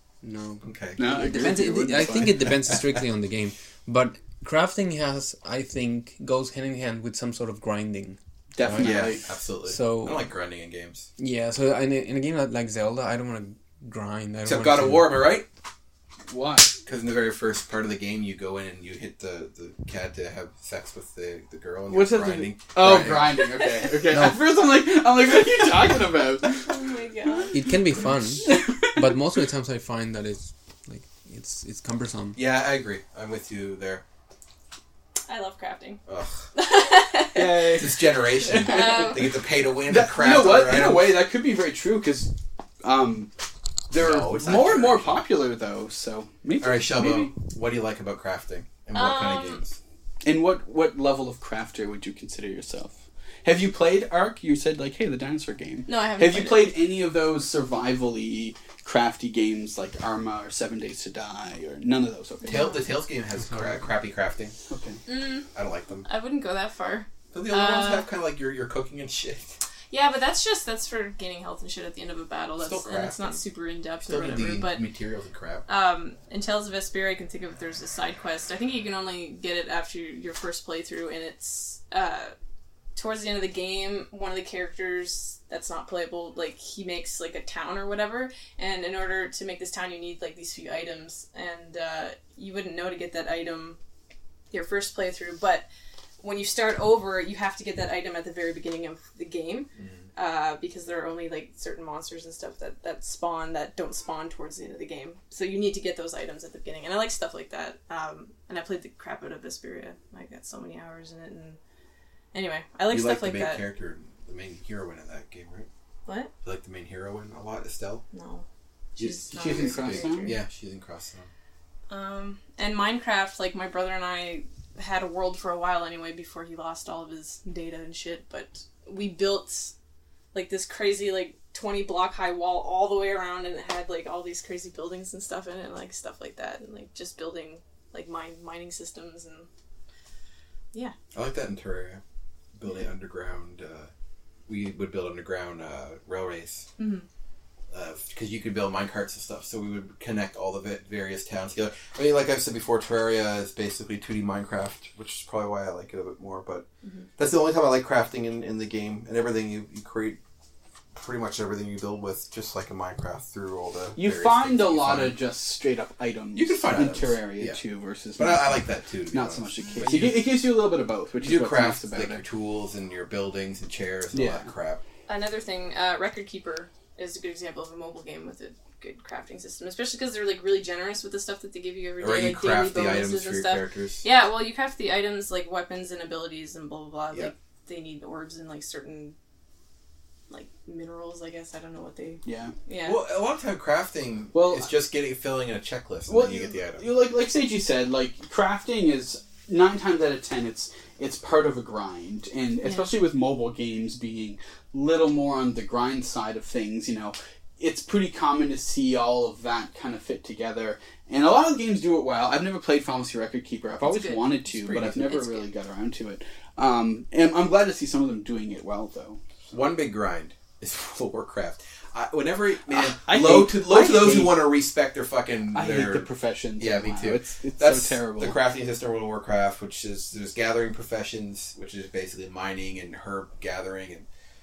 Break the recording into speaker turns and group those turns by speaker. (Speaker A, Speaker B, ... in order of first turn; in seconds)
Speaker A: 0.2-10.2, 11.2-15.2, 22.8-23.2, 24.1-24.5, 27.5-32.4, 63.4-63.8
Speaker B: 0.6-1.5, 8.7-11.1, 14.4-15.5, 16.8-23.4, 32.3-34.0, 36.1-36.4, 37.8-41.2, 43.9-45.3, 46.6-49.8, 62.5-64.5, 65.5-66.1, 67.3-69.6, 72.6-73.4, 74.0-75.7, 99.8-100.0, 112.9-115.7, 116.4-118.0, 119.0-121.3, 141.1-142.0, 142.5-143.9, 144.5-146.7, 147.7-156.7, 157.2-160.2, 160.9-165.2, 166.3-167.6, 168.2-170.3, 171.2-174.8, 182.0-184.0, 192.8-196.9, 219.5-234.1
Speaker C: 1.0-2.5, 8.5-9.2, 16.3-16.7, 21.9-26.7, 28.4-29.1, 37.3-39.3, 39.9-43.3, 43.9-47.3, 50.2-62.8, 64.7-65.0, 119.3-120.3, 163.9-172.2, 174.1-174.5, 192.2-192.5, 194.3-194.7, 196.1-219.2, 222.7-224.5, 225.5-228.4
Speaker D: 23.6-23.9, 26.6-27.7, 35.3-36.0, 36.5-37.8, 38.5-39.3, 48.9-49.6, 55.9-56.7, 62.4-62.8, 65.0-65.5, 66.0-68.1, 69.9-74.9, 75.7-82.3, 82.9-93.8, 94.5-95.7, 96.2-111.6, 112.3-113.6, 116.0-116.3, 118.1-118.4, 119.0-120.4, 121.9-129.7, 130.3-139.5, 146.8-147.1, 175.1-189.2, 190.3-193.0, 202.6-202.9, 213.8-215.5